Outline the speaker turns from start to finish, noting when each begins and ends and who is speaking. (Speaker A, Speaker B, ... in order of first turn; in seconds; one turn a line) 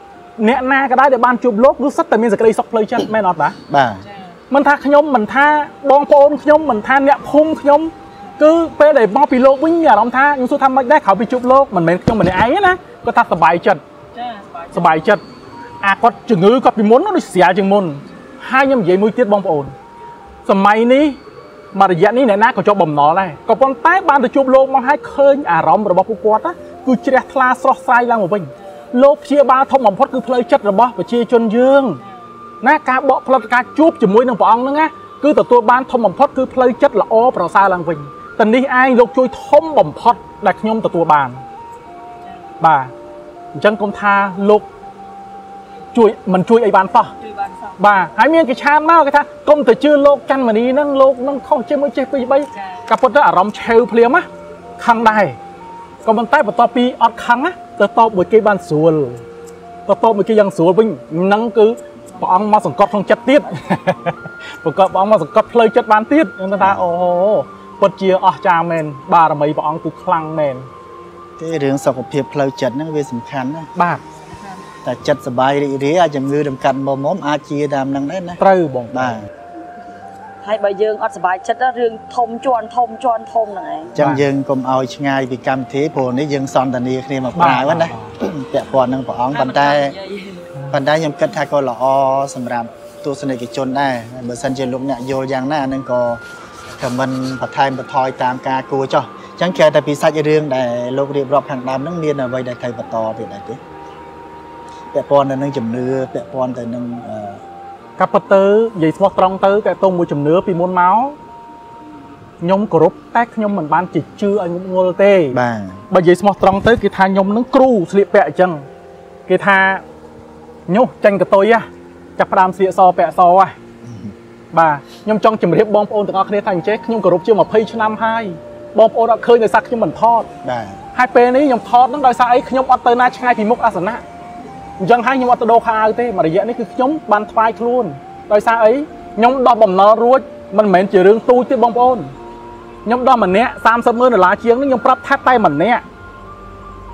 Speaker A: 0.4-3.6
Speaker B: 3.7-4.1
Speaker C: 4.1-4.4
Speaker A: 4.5-13.8
Speaker C: 14.2-14.8
Speaker A: 14.7-15.2
Speaker A: 15.8-19.7
Speaker A: 20.5-21.2
Speaker A: 21.7-32.0
Speaker A: 32.6-41.4
Speaker C: 42.2-42.5
Speaker A: 42.6-42.9
Speaker A: 43.5-44.7
Speaker A: 45.9-47.1
Speaker C: 47.2-47.8
Speaker A: 47.8-54.3
Speaker C: 52.5-52.9
Speaker A: 54.8-55.4
Speaker A: 56.0-59.2
Speaker A: 59.9-70.7
Speaker B: 71.4-73.7
Speaker A: 73.8-74.0
Speaker B: 74.8-79.3
Speaker A: 78.4-79.3
Speaker C: 80.4-84.0
Speaker B: 84.0-90.0
Speaker A: 84.0-84.3
Speaker A: 87.3-88.2
Speaker C: 89.3-90.5
Speaker B: 90.7-96.2
Speaker B: 96.8-103.6
Speaker B: 104.9-107.4
Speaker A: 108.0-111.2
Speaker A: 112.4-115.4
Speaker B: 115.3-115.8
Speaker A: 115.9-118.7
Speaker A: 119.3-119.8
Speaker A: 120.7-123.5
Speaker B: 123.8-124.1
Speaker A: 124.5-130.3
Speaker B: 130.4-130.8
Speaker A: 130.9-134.0
Speaker A: 134.8-142.1
Speaker A: 142.8-145.8